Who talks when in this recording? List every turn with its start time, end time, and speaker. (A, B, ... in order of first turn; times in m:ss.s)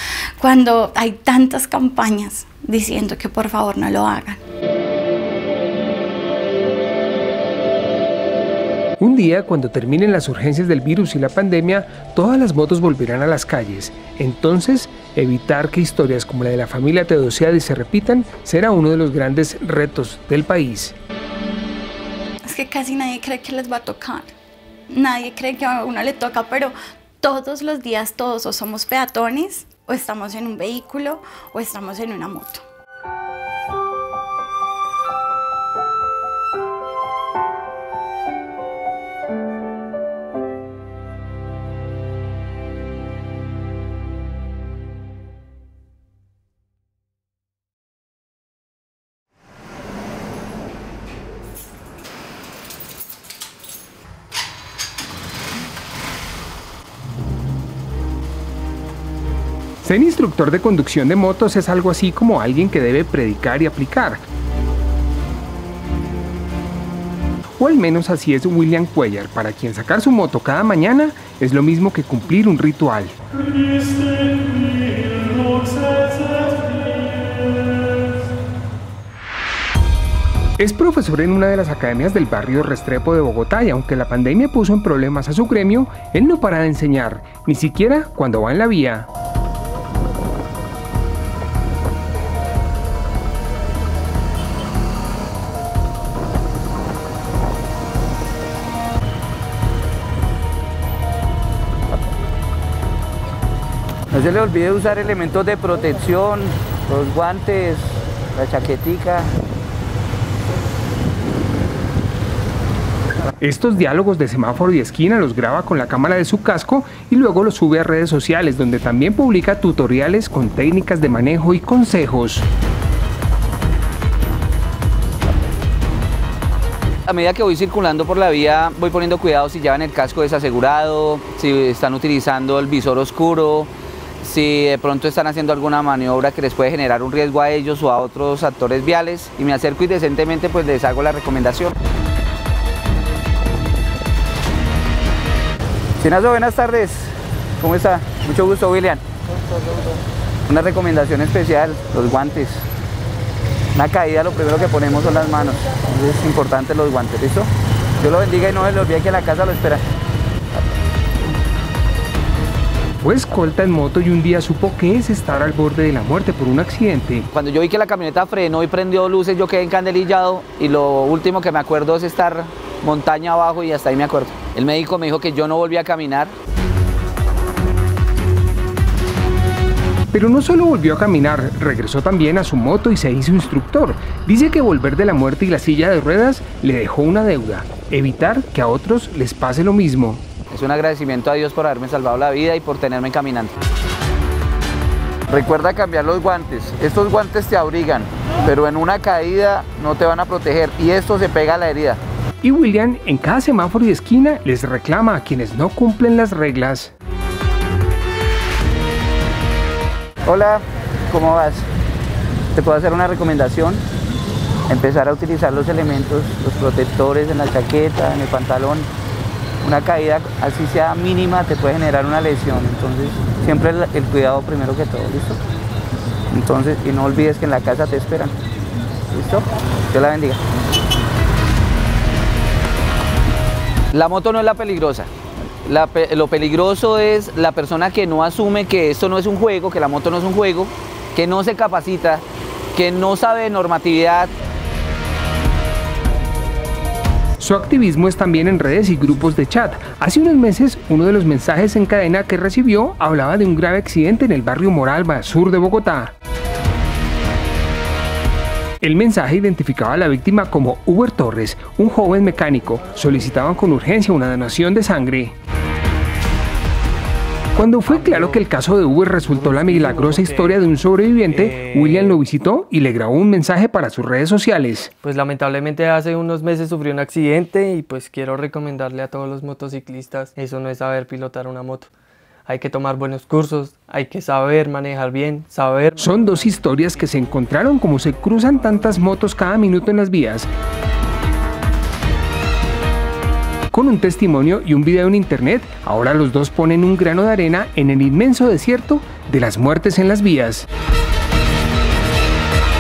0:00.4-0:04.4 A
0:09.0-0:21.0 B
0:22.5-0:24.3 A
0:24.9-0:32.6 A
0:59.8-1:04.2 B
1:07.6-1:13.2 B
1:20.6-1:29.1 B
1:44.1-1:49.3 C
1:53.4-2:02.5 B
2:07.1-2:21.7 C
2:26.0-2:29.0 C
2:30.5-2:32.7 C
2:33.8-2:37.5 C
2:38.0-2:39.8 C
2:43.0-2:47.3 B
2:47.3-2:56.4 C
3:00.1-3:10.2 B
3:10.5-3:13.5 C
3:15.3-3:22.0 C
3:22.4-3:26.9 B
3:30.3-3:31.7 C
3:32.6-3:33.8 C
3:34.7-3:38.9 C
3:39.6-3:45.4 C
3:46.3-3:48.4 C
3:49.1-3:50.4 C
3:53.9-3:55.1 C
3:55.6-4:02.2 C
4:02.8-4:04.3 C
4:07.4-4:16.2 B
4:18.8-4:25.4 B
4:27.5-4:34.9 B
4:27.9-4:28.5 D
4:29.2-4:30.6 D
4:31.3-4:32.2 D
4:35.0-4:41.9 D
4:42.5-4:46.3 D
4:46.0-4:50.5 B
4:53.7-5:00.7 B